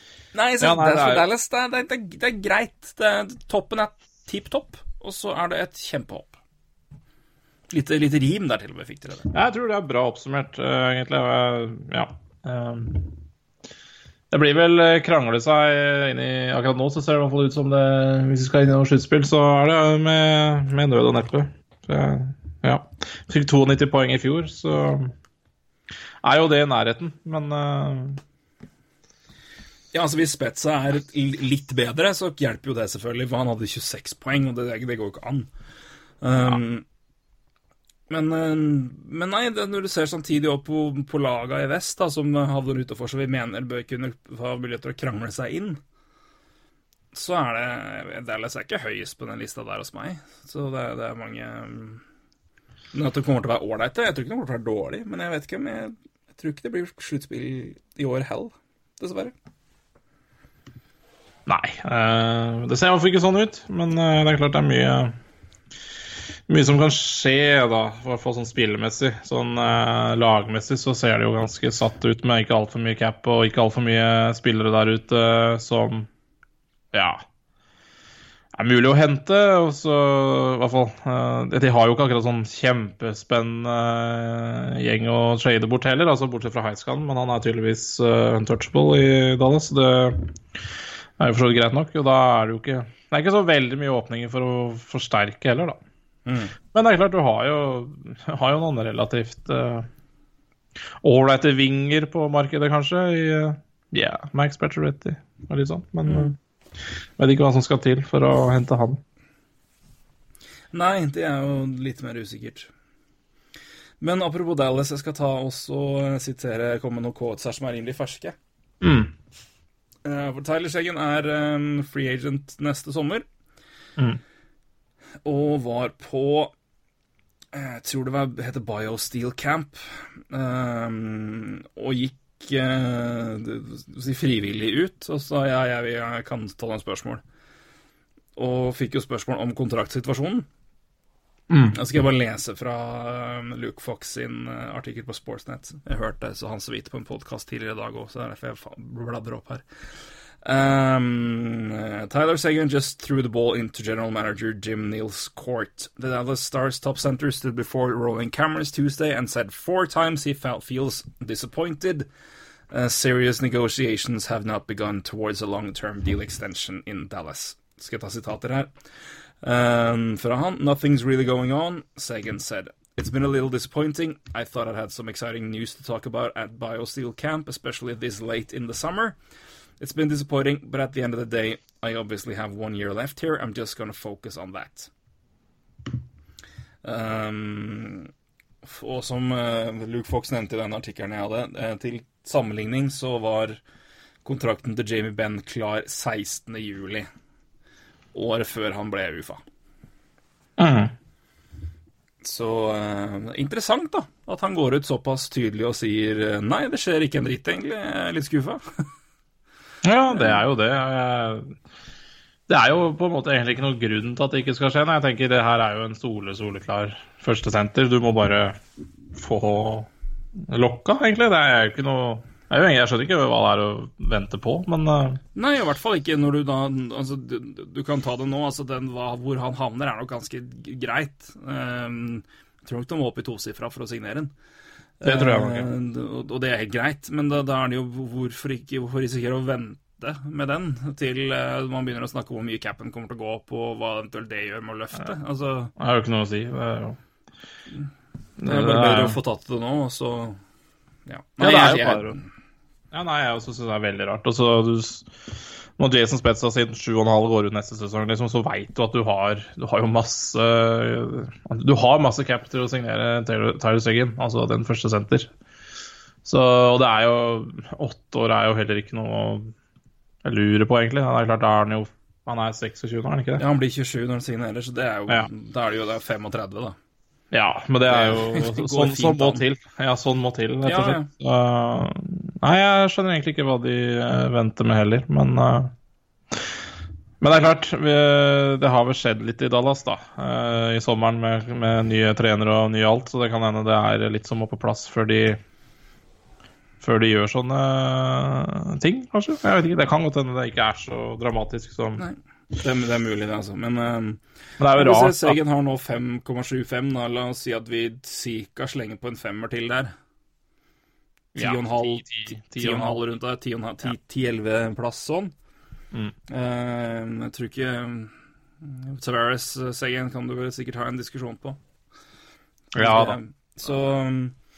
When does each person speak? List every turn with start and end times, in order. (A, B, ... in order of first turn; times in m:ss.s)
0:00.3-0:06.4 A
0:00.6-0:01.2 B
0:07.7-0:09.3 A
0:09.3-0:13.2 B
0:14.3-0:25.1 B
0:26.2-0:28.2 B
0:29.9-0:35.5 A
0:36.2-0:36.8 A
0:38.1-0:45.8 A
0:47.1-0:52.0 A
0:52.9-0:59.3 A
1:01.5-1:05.2 B
1:06.5-1:16.1 B
1:16.9-1:17.2 B
1:18.6-1:30.4 B
1:31.2-1:35.8 B
1:36.3-1:36.6 A
1:36.7-1:39.9 B
1:41.0-1:46.4 B
1:46.1-1:46.3 A
1:47.2-1:49.0 B
1:50.7-1:52.7 A
1:54.0-1:58.4 A
1:58.8-1:59.1 B
2:00.0-2:03.3 A
2:05.2-2:06.5 A
2:07.5-2:17.2 A
2:18.4-2:20.5 A
2:21.5-2:21.8 B
2:21.7-2:29.6 A
2:30.4-2:42.1 A
2:42.7-2:48.7 A
2:49.4-2:59.2 A
2:59.8-3:04.9 A
3:06.8-3:08.1 A
3:08.6-3:13.6 A
3:14.2-3:17.1 A
3:18.1-3:19.4 A
3:20.6-3:20.9 B
3:22.2-3:28.8 A
3:29.8-3:31.6 B
3:30.1-3:30.4 A
3:32.5-3:38.6 B
3:39.1-3:39.9 B
3:40.5-3:45.2 B
3:45.4-3:54.3 A
3:55.0-4:05.7 A
3:55.0-3:55.7 B
4:05.8-4:07.0 B
4:08.4-4:09.2 B
4:08.4-4:10.4 A
4:11.1-4:12.3 A
4:11.4-4:12.1 B
4:12.9-4:25.3 B
4:26.2-4:29.5 B
4:30.2-4:33.4 B
4:33.4-4:36.8 A
4:37.3-4:45.7 B
4:37.9-4:39.4 A
4:40.6-4:41.1 A
4:47.2-4:55.4 B
4:56.8-5:02.0 B
5:02.0-5:04.2 A
5:04.6-5:05.4 B
5:04.7-5:09.9 A
5:11.4-5:13.0 B
5:11.4-5:15.3 A
5:16.3-5:21.6 A
5:22.7-5:23.2 B
5:22.8-5:24.4 A